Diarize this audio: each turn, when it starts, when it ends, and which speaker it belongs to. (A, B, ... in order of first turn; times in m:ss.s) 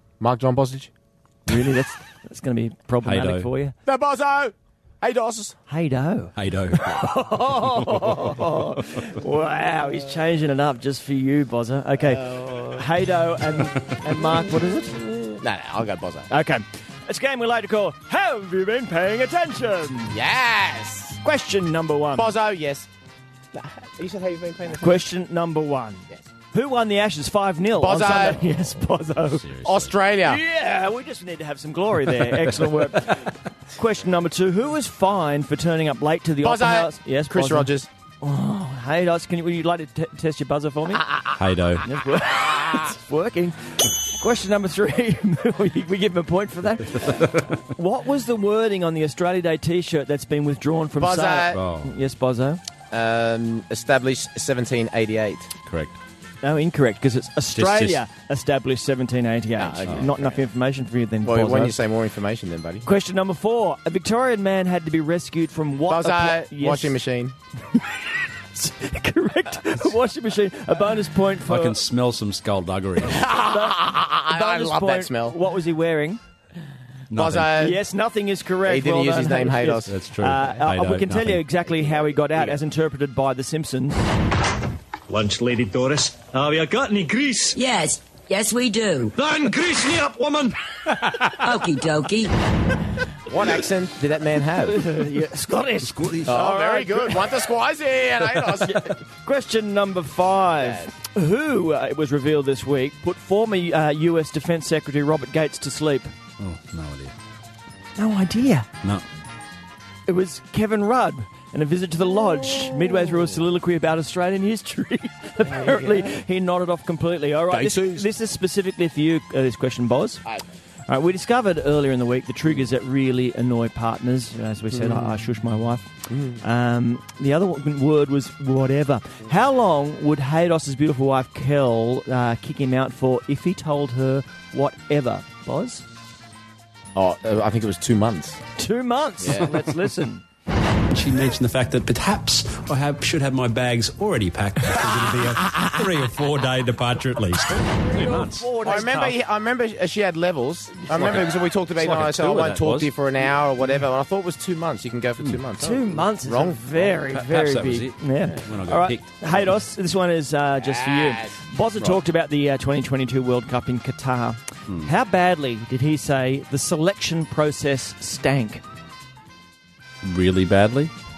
0:00.2-0:00.9 A
0:01.5-0:03.7 B
0:03.0-0:03.5 C
0:03.8-0:05.6 A
0:05.7-0:15.1 B
0:06.4-0:08.3 C
0:12.2-0:12.5 A
0:15.4-0:16.3 A
0:16.3-0:20.2 B
0:20.1-0:21.2 A
0:21.2-0:22.3 B
0:22.1-0:22.9 A
0:23.5-0:25.0 A
0:24.7-0:29.5 B
0:27.8-0:28.4 A
0:29.2-0:29.9 C
0:29.6-0:30.4 A
0:30.2-0:41.1 B
0:36.4-0:37.9 A
0:41.3-0:41.9 C
0:41.8-0:52.6 B
0:47.0-0:47.5 C
0:51.0-0:51.6 A
0:51.5-0:51.9 C
0:52.9-0:55.5 A
0:55.6-0:56.0 C
0:56.4-1:01.8 B
0:57.5-0:58.0 C
0:59.6-1:00.4 A
1:01.2-1:02.8 A
1:02.8-1:06.9 B
1:05.9-1:07.3 A
1:08.5-1:11.8 B
1:11.5-1:13.3 C
1:13.0-1:15.4 A
1:13.2-1:16.2 B
1:17.1-1:17.5 C
1:17.1-1:17.8 A
1:17.6-1:24.1 B
1:18.6-1:19.9 A
1:19.9-1:21.4 C
1:25.1-1:27.6 D
1:27.5-1:29.1 E
1:29.1-1:30.6 D
1:31.3-1:32.3 E
1:33.3-1:34.8 A
1:34.6-1:37.2 B
1:35.8-1:36.4 C
1:36.2-1:38.9 A
1:38.6-1:46.1 B
1:40.6-1:40.9 A
1:46.4-1:47.1 C
1:48.0-1:48.7 B
1:50.1-2:00.2 B
1:57.5-1:58.0 C
2:00.9-2:15.8 B
2:06.1-2:06.4 A
2:16.9-2:18.4 A
2:18.6-2:20.2 B
2:19.2-2:19.6 A
2:20.9-2:28.5 C
2:27.9-2:29.2 B
2:28.6-2:36.9 A
2:30.9-2:32.9 C
2:35.6-2:48.6 B
2:37.1-2:39.4 C
2:40.6-2:42.0 A
2:50.0-2:50.9 C